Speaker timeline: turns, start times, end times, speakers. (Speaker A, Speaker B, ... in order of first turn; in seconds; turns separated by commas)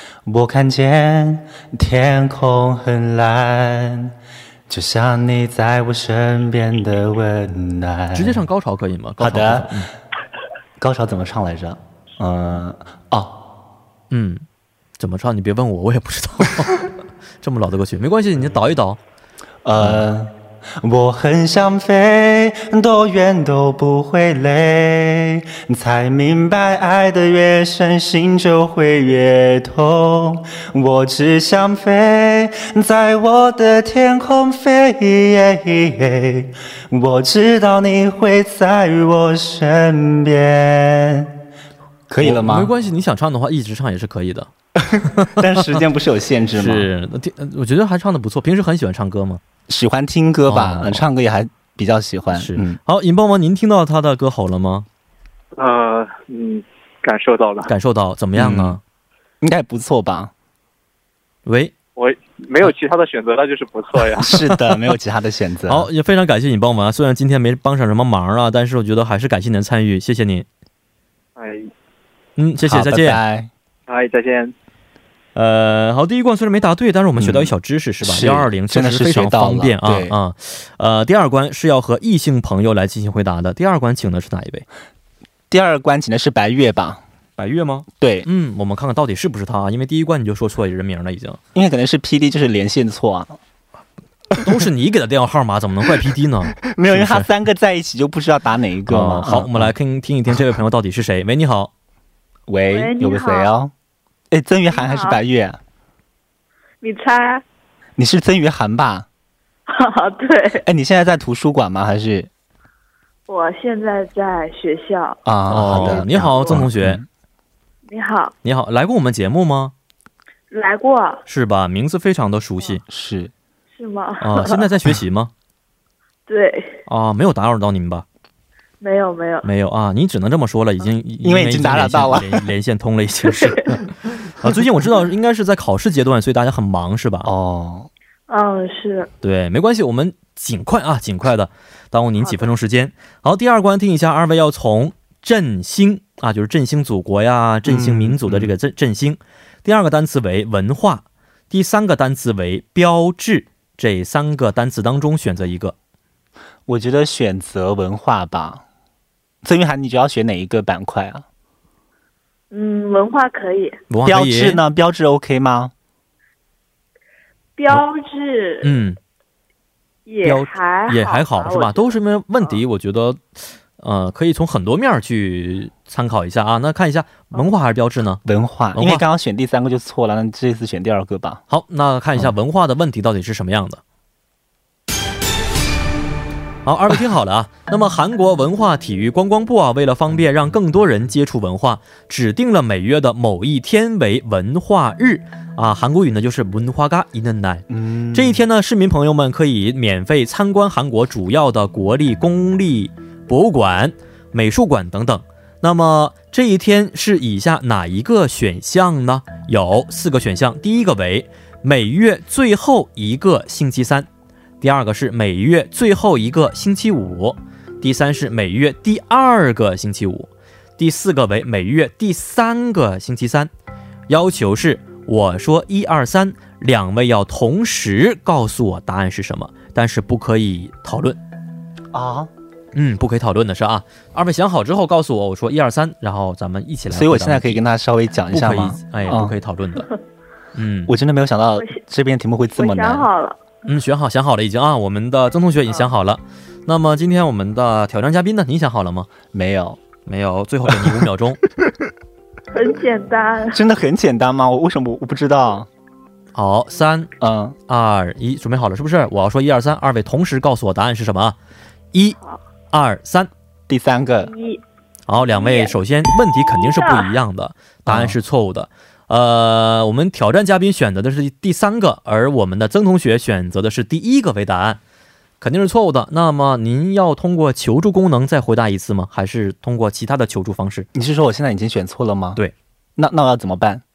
Speaker A: 0.2-4.1, Speaker A: 4.7-8.4, Speaker B: 8.1-9.9, Speaker A: 9.2-9.9, Speaker A: 10.8-13.3, Speaker B: 14.1-14.4, Speaker B: 15.0-16.9, Speaker B: 17.4-19.0, Speaker A: 19.6-41.3, Speaker B: 19.8-20.0, Speaker A: 42.1-42.7, Speaker B: 42.2-45.8, Speaker A: 44.8-46.9, Speaker B: 46.5-49.4, Speaker A: 49.7-52.8, Speaker B: 50.5-51.0, Speaker B: 52.3-54.9, Speaker C: 55.5-57.7, Speaker B: 57.7-58.8, Speaker A: 58.4-58.8, Speaker A: 59.4-60.3, Speaker B: 61.5-61.7, Speaker C: 62.0-64.3, Speaker A: 64.2-65.9, Speaker B: 64.3-64.8, Speaker B: 65.7-70.5, Speaker C: 71.4-71.7, Speaker B: 72.4-73.2, Speaker A: 72.6-73.5, Speaker C: 73.9-74.5, Speaker B: 75.3-84.6, Speaker A: 77.2-80.2, Speaker A: 85.5-87.0, Speaker B: 87.4-91.4, Speaker A: 88.0-88.3, Speaker A: 91.5-93.4, Speaker B: 94.4-97.3, Speaker A: 96.6-99.7, Speaker B: 98.9-101.7, Speaker A: 102.5-103.7, Speaker D: 102.7-103.5, Speaker A: 104.3-105.6, Speaker D: 104.7-105.2, Speaker D: 106.8-107.4, Speaker A: 108.0-109.0, Speaker D: 109.7-110.7, Speaker A: 110.5-112.3, Speaker D: 113.3-115.2, Speaker A: 115.2-117.0, Speaker B: 115.5-117.0, Speaker D: 115.8-116.5, Speaker D: 117.9-118.3, Speaker B: 118.4-119.7, Speaker D: 120.5-121.2, Speaker B: 121.3-122.8, Speaker A: 122.9-123.3, Speaker D: 123.8-124.7, Speaker B: 124.2-125.3, Speaker D: 126.3-126.8, Speaker B: 126.9-128.0, Speaker D: 128.8-129.5, Speaker B: 129.4-137.3, Speaker A: 131.2-132.5, Speaker A: 137.2-137.9, Speaker D: 138.3-139.1, Speaker B: 139.2-155.7, Speaker D: 142.2-142.5, Speaker A: 147.6-148.5, Speaker A: 156.7-158.6, Speaker A: 159.4-161.2, Speaker D: 162.5-163.8, Speaker B: 163.9-164.6, Speaker A: 164.0-165.7, Speaker D: 167.6-168.7, Speaker B: 168.6-169.0, Speaker D: 170.1-171.9, Speaker B: 170.2-178.2, Speaker A: 178.2-181.4, Speaker B: 178.7-179.0, Speaker B: 181.5-183.8, Speaker B: 186.6-214.1, Speaker A: 197.7-198.4, Speaker B: 214.6-223.5, Speaker B: 224.1-231.2, Speaker A: 231.9-232.3, Speaker B: 232.7-237.6, Speaker A: 236.9-239.3, Speaker B: 238.3-239.9, Speaker B: 240.5-240.9, Speaker A: 240.9-243.1, Speaker D: 242.5-243.4, Speaker B: 243.7-249.1, Speaker A: 249.3-249.8, Speaker B: 250.1-251.4, Speaker A: 250.7-251.0, Speaker D: 252.5-253.6, Speaker A: 253.5-255.7, Speaker B: 256.3-257.1, Speaker A: 257.2-257.6, Speaker B: 257.7-261.4, Speaker B: 262.7-263.3, Speaker A: 263.7-264.3, Speaker D: 264.2-264.6, Speaker B: 265.1-274.8, Speaker D: 265.4-265.7, Speaker D: 266.6-267.1, Speaker A: 267.9-268.2, Speaker B: 275.4-280.9, Speaker A: 280.9-282.4, Speaker A: 283.0-283.8